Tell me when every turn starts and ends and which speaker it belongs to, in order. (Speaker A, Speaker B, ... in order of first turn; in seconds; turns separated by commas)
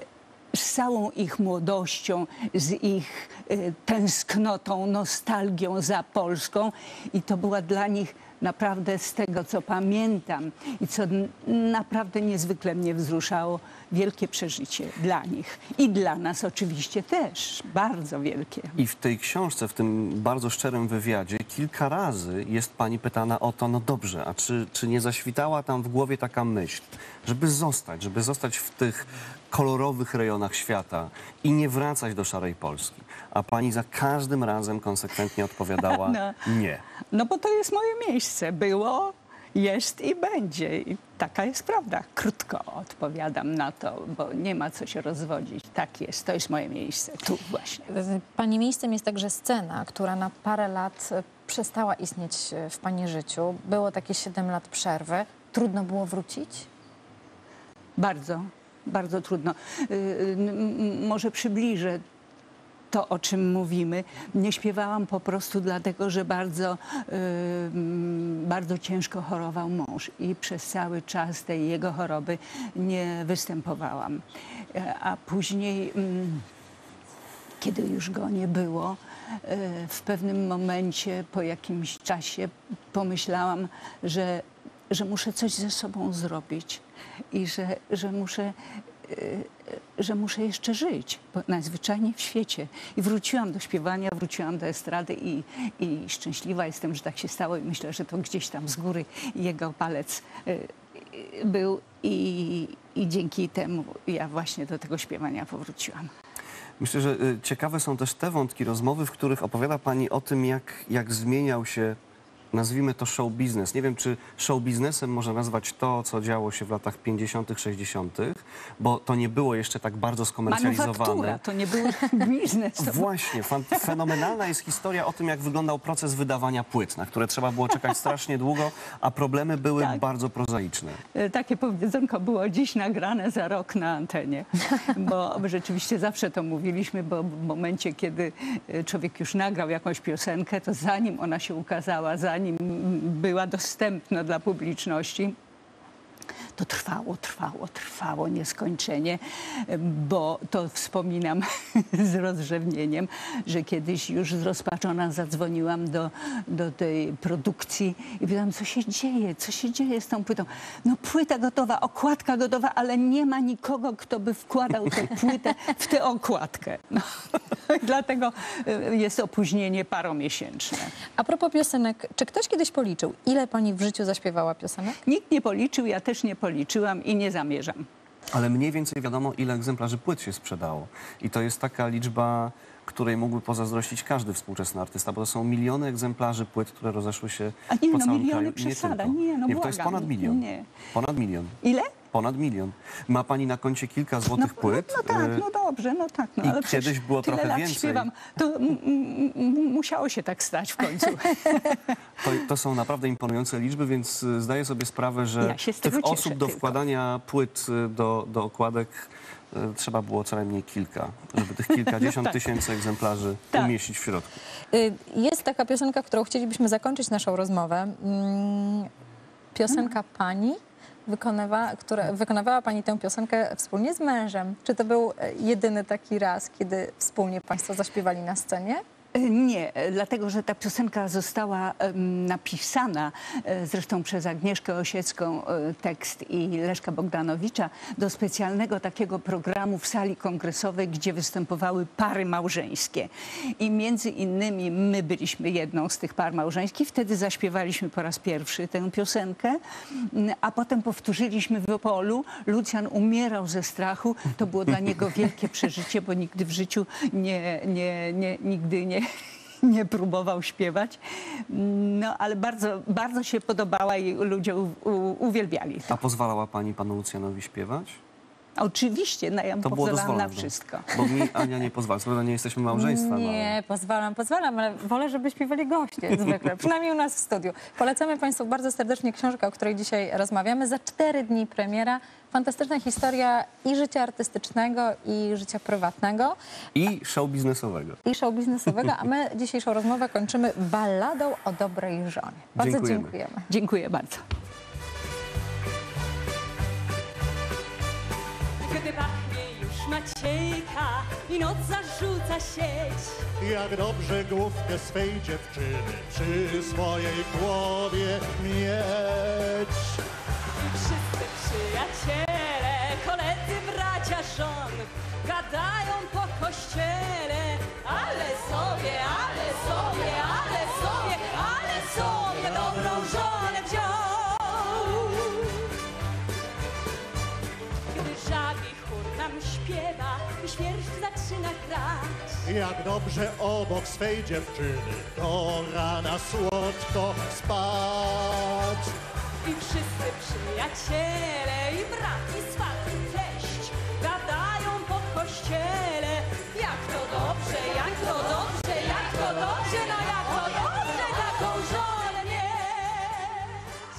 Speaker A: 0.5-18.8, Speaker B: 18.8-36.8, Speaker A: 35.8-36.4, Speaker A: 37.1-47.9, Speaker C: 47.9-56.7, Speaker A: 58.0-62.0, Speaker A: 62.9-76.5, Speaker A: 77.6-86.8, Speaker A: 87.3-88.5, Speaker A: 89.0-106.1, Speaker B: 106.8-112.0, Speaker B: 112.5-121.4, Speaker A: 120.5-124.3, Speaker B: 122.8-131.0, Speaker A: 131.1-145.3, Speaker A: 146.6-170.9, Speaker C: 171.2-175.0, Speaker A: 175.1-177.8, Speaker B: 178.3-191.6, Speaker A: 187.7-190.7, Speaker A: 191.6-192.0, Speaker B: 192.1-195.4, Speaker A: 194.3-201.9, Speaker B: 196.4-198.1, Speaker B: 202.2-214.3, Speaker A: 205.4-206.8, Speaker A: 211.8-212.3, Speaker C: 214.7-218.9, Speaker C: 219.5-228.8, Speaker A: 229.1-259.0, Speaker A: 259.6-266.0, Speaker B: 265.9-268.0, Speaker A: 268.6-270.9, Speaker B: 269.6-273.6, Speaker C: 272.7-286.4, Speaker B: 286.7-288.0, Speaker C: 288.0-293.5, Speaker B: 292.6-293.1, Speaker A: 293.5-294.2, Speaker D: 298.6-303.2, Speaker E: 303.4-310.0, Speaker D: 310.6-325.6, Speaker D: 327.9-332.5, Speaker E: 332.6-338.9, Speaker D: 339.4-353.7